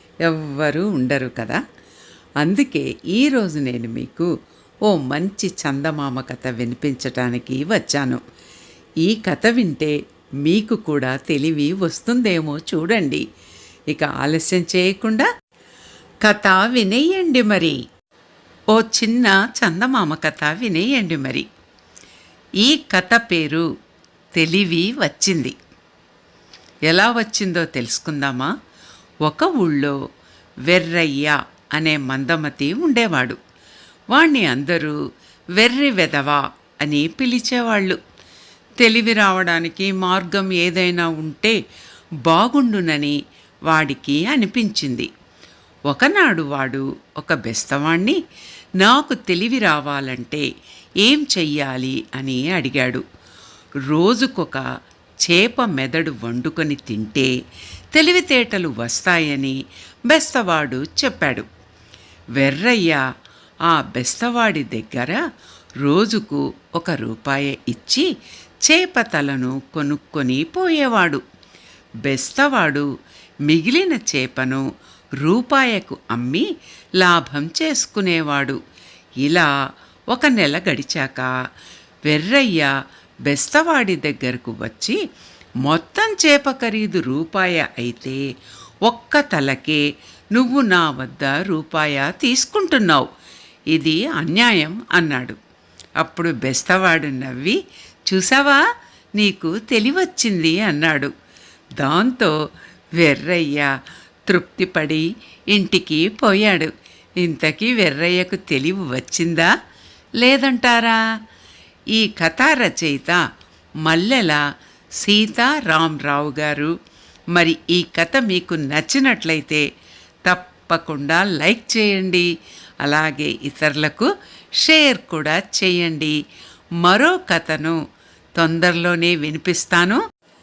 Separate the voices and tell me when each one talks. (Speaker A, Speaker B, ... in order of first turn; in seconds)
Speaker A: 0.2-1.6, 2.4-4.3, 4.9-8.2, 9.0-13.2, 13.9-15.3, 16.2-17.8, 18.7-21.4, 22.6-23.6, 24.4-25.6, 26.9-28.5, 29.2-30.0, 30.7-33.4, 34.1-35.0, 35.6-38.0, 38.8-41.6, 42.2-43.2, 43.7-45.1, 45.9-48.2, 48.8-50.5, 51.0-53.0, 53.9-54.6, 55.2-57.3, 57.9-59.6, 60.1-61.5, 62.4-63.0, 63.7-65.2, 65.8-68.1, 68.7-71.2, 72.0-72.9, 73.5-74.7, 75.2-76.5, 77.0-78.6, 79.2-79.5, 80.1-81.3, 82.1-82.7, 83.2-85.0, 85.6-88.2, 88.9-89.8, 90.3-93.1, 93.7-95.4, 96.0-97.6, 98.1-98.6, 99.2-101.1, 101.8-102.3, 103.0-103.7, 104.3-109.5, 110.2-111.0, 111.9-113.2, 113.8-114.4, 115.0-116.7, 117.3-119.6, 120.3-122.3, 122.8-124.1, 124.6-126.2, 126.8-127.8, 128.4-130.0